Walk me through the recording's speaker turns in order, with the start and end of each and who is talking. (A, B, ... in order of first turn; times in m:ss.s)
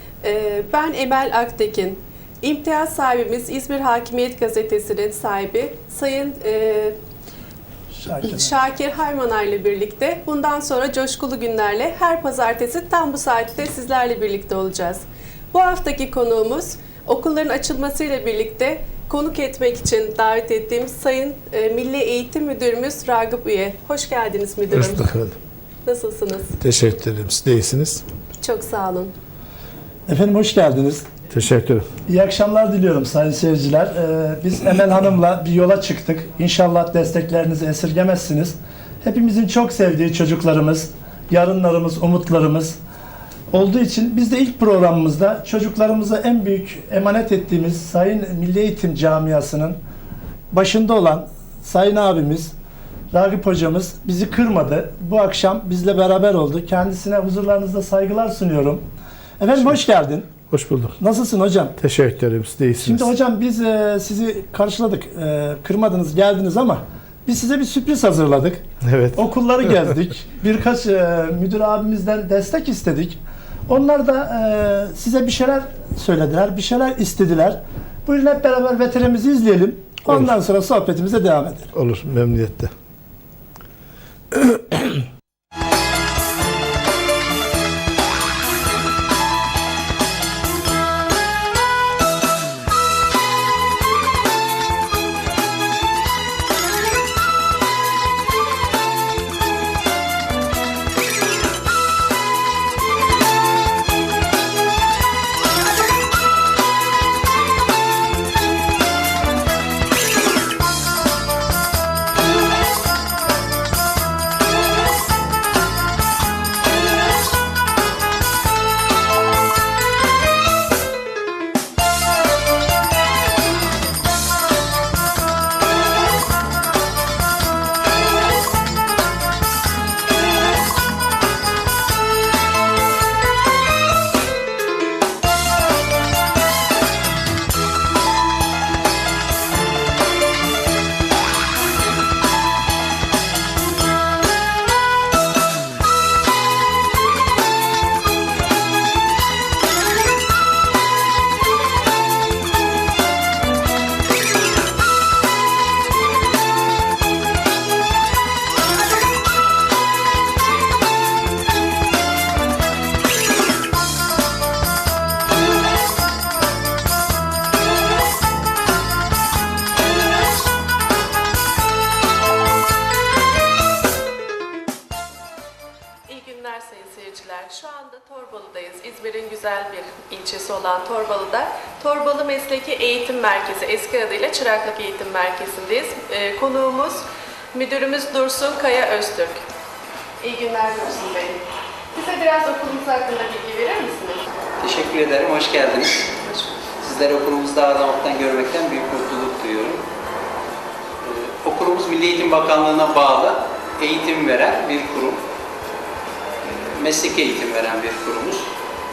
0:00.2-0:07.0 A
0:07.9-0:08.6 B
0:08.2-0:25.1 A
0:24.7-0:25.4 C
0:25.8-0:26.6 A
0:26.6-0:28.0 C
0:28.4-0:29.1 A
0:30.1-0:31.0 B
0:31.3-0:31.9 C
0:32.1-0:42.8 B
0:43.5-0:49.8 B
0:50.5-0:52.5 B
0:53.1-0:58.8 B
0:59.4-1:00.3 B
1:00.5-1:00.9 C
1:01.0-1:01.8 B
1:01.8-1:03.1 C
1:02.8-1:08.6 B
1:08.8-1:09.2 C
1:09.1-1:21.7 B
1:21.8-1:22.7 C
1:24.3-1:25.0 C
2:56.1-3:09.4 A
3:10.2-3:14.2 A
3:14.6-3:16.2 D
3:16.2-3:16.7 A
3:16.8-3:19.8 D
3:21.0-3:25.2 D
3:26.4-3:28.5 D